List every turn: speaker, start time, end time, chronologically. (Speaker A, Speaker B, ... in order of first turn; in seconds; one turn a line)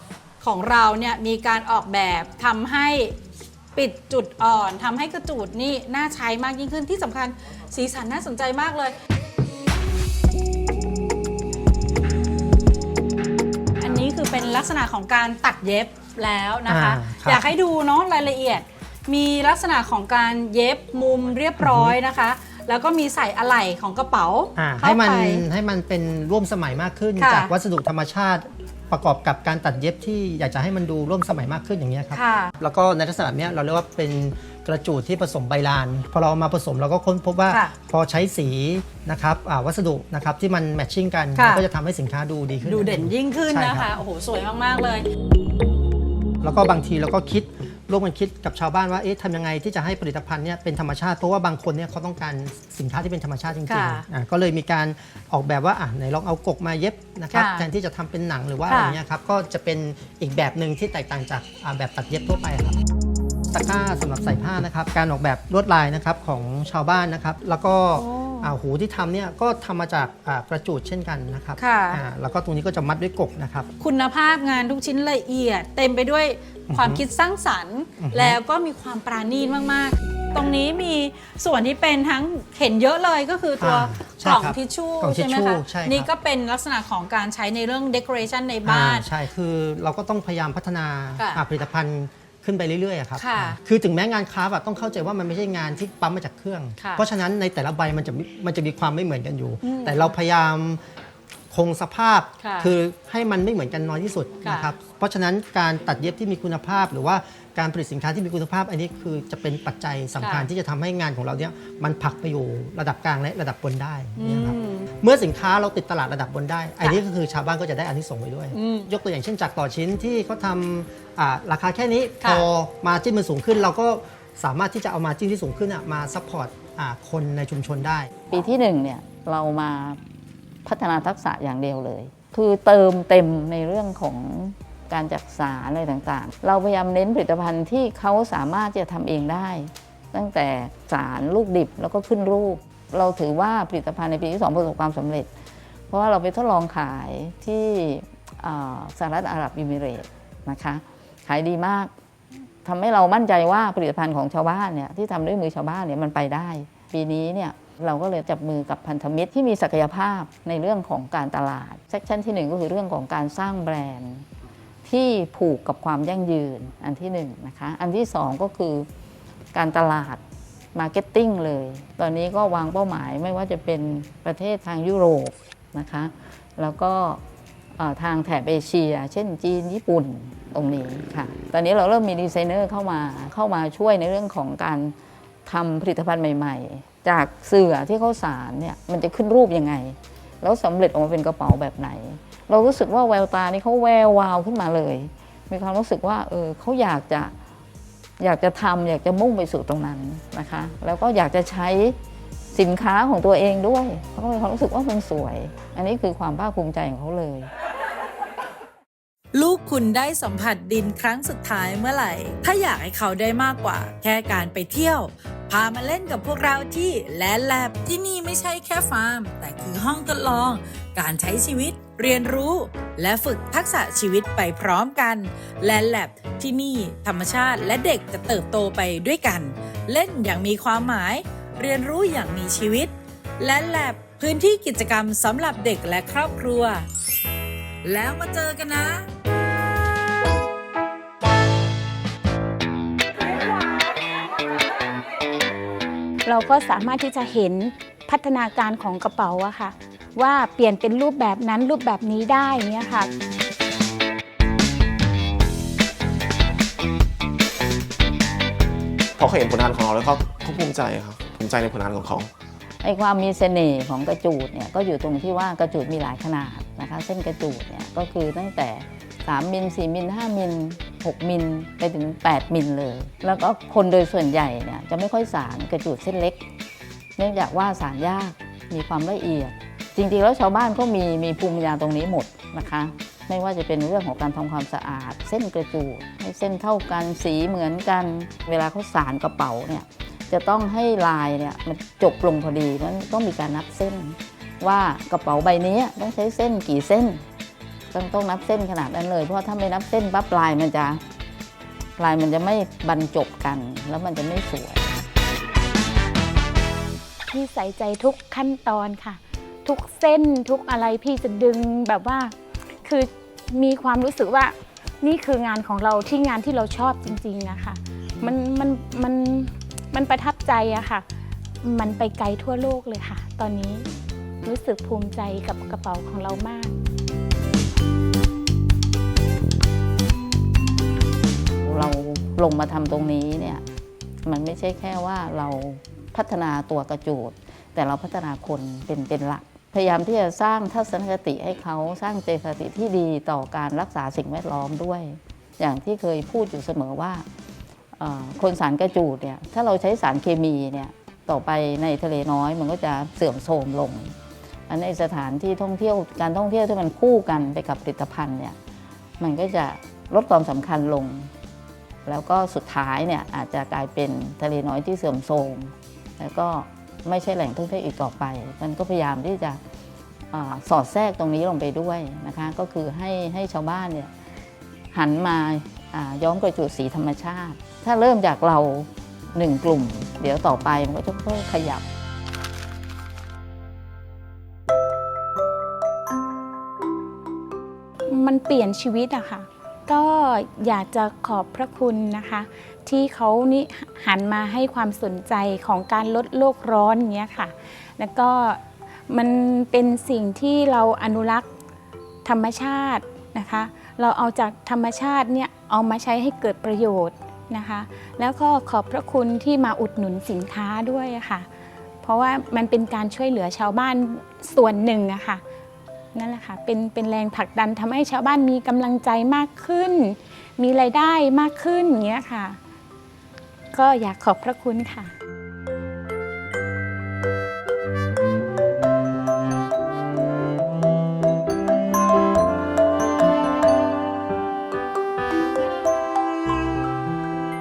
Speaker A: 0.4-3.1
Speaker A: 3.8-8.9
Speaker A: 13.8-25.4
Speaker B: 16.7-17.5
Speaker B: 21.6-22.0
Speaker B: 24.6-43.9
Speaker A: 27.1-27.5
Speaker A: 32.1-32.5
Speaker A: 37.5-37.8
Speaker A: 41.3-41.7
Speaker A: 42.6-45.0
Speaker B: 46.4-62.8
Speaker A: 53.6-54.1
Speaker A: 57.3-57.7
Speaker A: 58.6-59.0
Speaker B: 63.5-73.7
Speaker A: 68.0-68.5
Speaker A: 71.6-72.0
Speaker A: 73.8-89.1
Speaker B: 76.7-77.0
Speaker B: 78.0-78.4
Speaker B: 83.6-86.1
Speaker B: 88.6-100.8
Speaker A: 91.2-91.4
Speaker A: 93.1-93.6
Speaker A: 96.8-97.0
Speaker A: 99.6-100.1
Speaker B: 101.5-128.1
Speaker A: 102.4-102.7
Speaker A: 104.4-104.7
Speaker A: 110.2-110.5
Speaker A: 114.1-114.9
Speaker A: 118.5-118.9
Speaker A: 122.2-122.5
Speaker C: 128.3-130.0
Speaker C: 130.7-145.3
Speaker C: 145.9-151.9
Speaker C: 152.7-164.2
Speaker C: 164.8-168.8
Speaker C: 169.5-170.2
Speaker C: 170.7-177.2
Speaker C: 177.8-184.9
Speaker C: 185.4-197.3
Speaker C: 198.2-201.9
Speaker C: 202.5-207.5
Speaker D: 209.3-236.8
Speaker D: 237.8-239.1
Speaker E: 246.2-253.1
Speaker F: 259.2-262.3
Speaker C: 262.8-276.4
Speaker C: 277.2-297.2
Speaker C: 297.9-301.0
Speaker C: 302.0-304.9
Speaker E: 307.3-321.1
Speaker E: 321.6-323.9
Speaker E: 324.4-326.7
Speaker C: 331.6-333.6
Speaker C: 334.2-347.2
Speaker C: 348.0-354.1
Speaker C: 354.7-358.6
Speaker C: 359.2-361.3
Speaker C: 362.1-369.6
Speaker C: 370.3-374.1
Speaker C: 374.9-381.8
Speaker E: 388.1-401.5
Speaker E: 402.2-411.5
Speaker E: 412.0-415.4
Speaker E: 416.1-422.6
Speaker E: 423.7-425.1